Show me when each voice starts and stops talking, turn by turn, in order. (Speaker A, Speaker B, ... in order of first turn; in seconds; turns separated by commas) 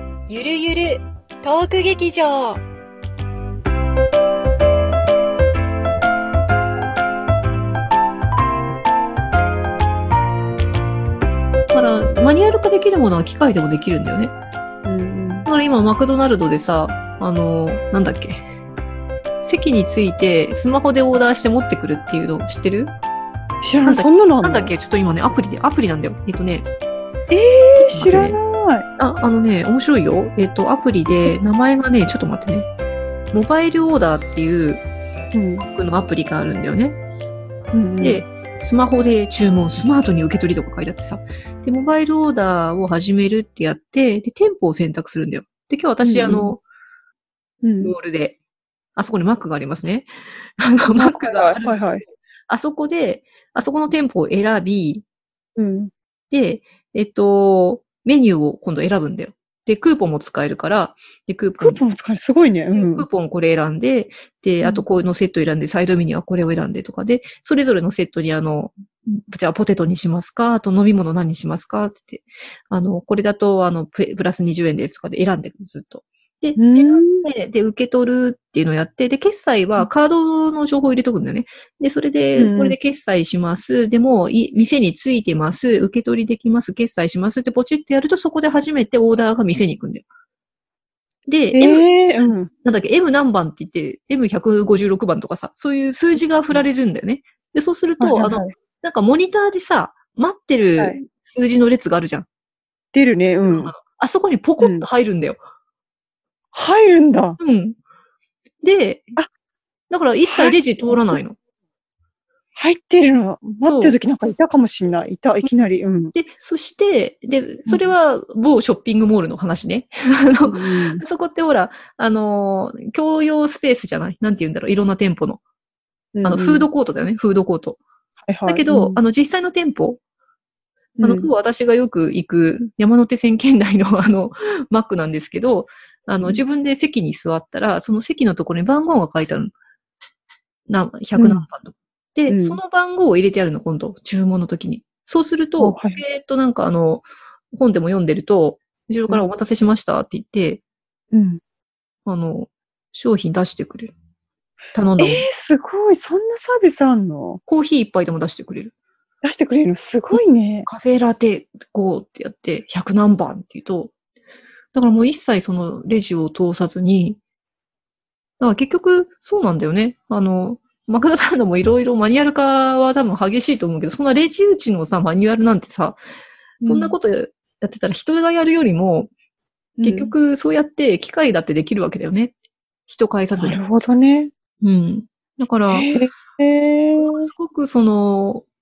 Speaker A: 0.3-2.6, Speaker B: 11.7-14.3, Speaker C: 14.8-15.5, Speaker B: 15.4-18.4, Speaker B: 19.4-22.9, Speaker C: 23.6-24.7, Speaker B: 23.8-26.7, Speaker C: 27.3-28.9, Speaker B: 27.8-28.4, Speaker B: 29.0-32.7, Speaker B: 33.3-34.8, Speaker C: 35.3-35.7, Speaker B: 35.6-37.0, Speaker C: 37.7-38.2, Speaker B: 38.0-46.6, Speaker C: 46.0-46.5, Speaker C: 47.6-48.0, Speaker B: 47.8-48.4, Speaker B: 49.0-52.0, Speaker C: 50.9-52.0, Speaker B: 52.5-55.0, Speaker C: 55.6-55.9, Speaker B: 56.3-61.8, Speaker C: 61.6-63.1, Speaker B: 62.8-90.0, Speaker C: 64.6-64.9, Speaker C: 76.6-77.3, Speaker C: 82.4-82.8, Speaker B: 91.3-102.3, Speaker C: 91.5-92.5, Speaker C: 98.0-98.5, Speaker C: 102.9-103.7, Speaker B: 103.5-105.4, Speaker C: 104.6-104.9, Speaker C: 106.5-107.4, Speaker B: 107.4-107.8, Speaker B: 108.6-109.1, Speaker B: 109.9-111.4, Speaker C: 110.3-111.2, Speaker C: 112.5-116.2, Speaker B: 113.7-114.0, Speaker B: 116.2-125.4, Speaker C: 120.5-121.0, Speaker C: 126.2-126.7, Speaker B: 126.2-127.8, Speaker C: 128.3-129.0, Speaker B: 128.5-130.0, Speaker C: 131.0-131.3, Speaker B: 131.0-139.5, Speaker B: 140.7-150.6, Speaker C: 141.2-141.5, Speaker C: 142.3-142.6, Speaker C: 145.6-146.0, Speaker C: 151.1-151.4, Speaker B: 152.1-153.9, Speaker B: 154.7-155.2, Speaker C: 155.0-157.4, Speaker B: 157.5-158.7, Speaker C: 159.2-160.7, Speaker B: 160.1-163.9, Speaker B: 164.7-167.2, Speaker B: 168.4-176.0, Speaker C: 176.6-177.0, Speaker B: 176.6-179.1, Speaker C: 179.8-180.1, Speaker B: 179.8-182.3, Speaker B: 182.9-183.6, Speaker C: 183.3-184.3, Speaker B: 184.6-185.9, Speaker C: 185.7-187.3, Speaker B: 187.0-188.4